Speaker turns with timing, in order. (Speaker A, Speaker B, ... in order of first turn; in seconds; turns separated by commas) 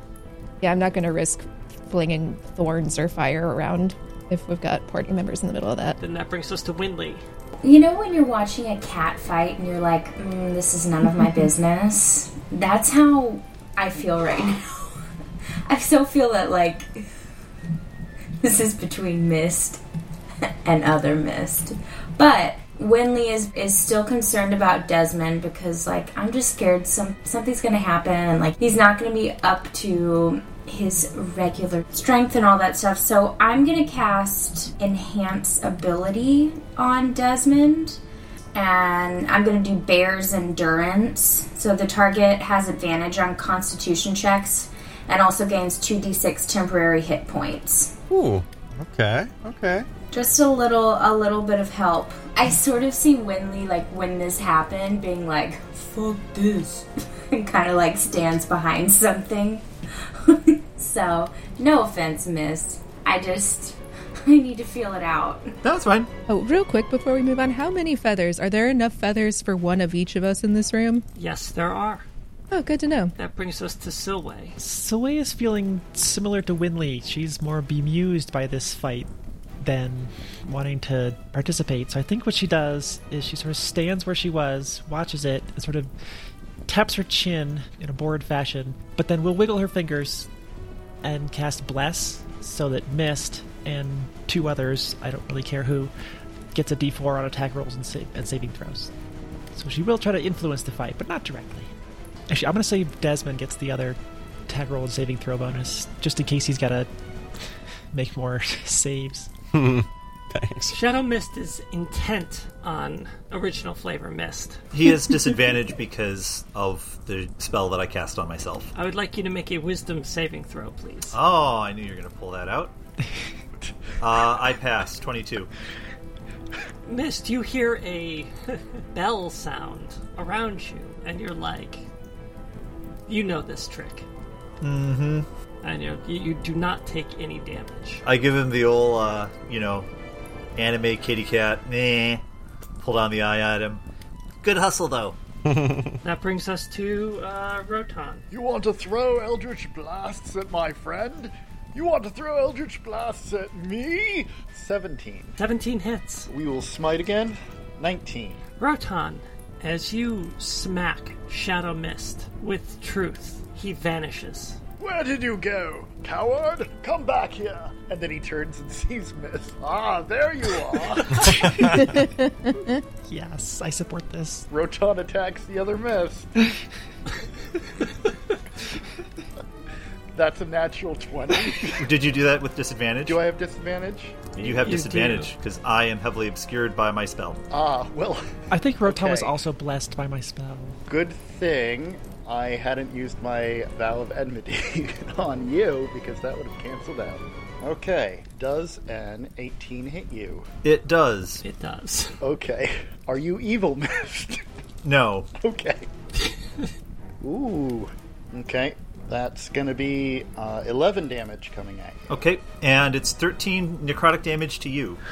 Speaker A: 0.6-6.0, Speaker B: 6.0-7.2, Speaker C: 7.6-14.8, Speaker C: 15.7-17.1, Speaker C: 18.4-19.8, Speaker C: 20.6-38.0, Speaker C: 38.5-48.0, Speaker D: 48.1-49.9, Speaker C: 50.1-65.6, Speaker E: 65.6-66.1, Speaker A: 66.3-71.0, Speaker B: 71.2-72.0, Speaker A: 72.5-73.1, Speaker B: 73.2-74.6, Speaker F: 74.6-79.1, Speaker F: 79.6-85.9, Speaker F: 86.7-90.3, Speaker F: 91.0-95.9, Speaker F: 96.5-98.9, Speaker F: 99.5-101.7, Speaker F: 102.3-104.0, Speaker F: 104.5-106.9, Speaker F: 107.9-109.3, Speaker D: 109.5-110.8, Speaker B: 110.7-114.6, Speaker E: 114.7-118.7, Speaker B: 118.8-121.2, Speaker E: 121.1-122.7, Speaker E: 124.0-125.5, Speaker B: 126.8-131.8, Speaker B: 133.1-134.1, Speaker E: 134.6-135.3, Speaker B: 135.6-138.0, Speaker E: 138.0-139.9, Speaker E: 140.6-142.2, Speaker E: 142.8-143.8, Speaker E: 144.4-145.2, Speaker D: 145.5-146.0, Speaker B: 146.0-148.2, Speaker G: 148.3-155.4, Speaker B: 155.4-156.3, Speaker G: 156.3-158.4, Speaker B: 158.6-164.6, Speaker G: 164.8-171.4, Speaker D: 171.3-171.7, Speaker F: 171.7-172.0, Speaker A: 171.8-172.8, Speaker F: 173.1-174.5, Speaker G: 174.5-176.3, Speaker G: 180.2-181.9, Speaker E: 181.8-183.2, Speaker G: 183.1-184.3, Speaker B: 184.4-185.3, Speaker E: 184.4-187.4, Speaker G: 187.5-188.2, Speaker F: 188.5-190.8, Speaker G: 188.8-189.3, Speaker G: 190.9-200.5, Speaker E: 200.6-201.4, Speaker B: 201.4-202.2, Speaker G: 202.2-204.4, Speaker E: 204.8-205.3, Speaker G: 205.4-205.9, Speaker G: 207.2-212.0, Speaker E: 212.1-215.0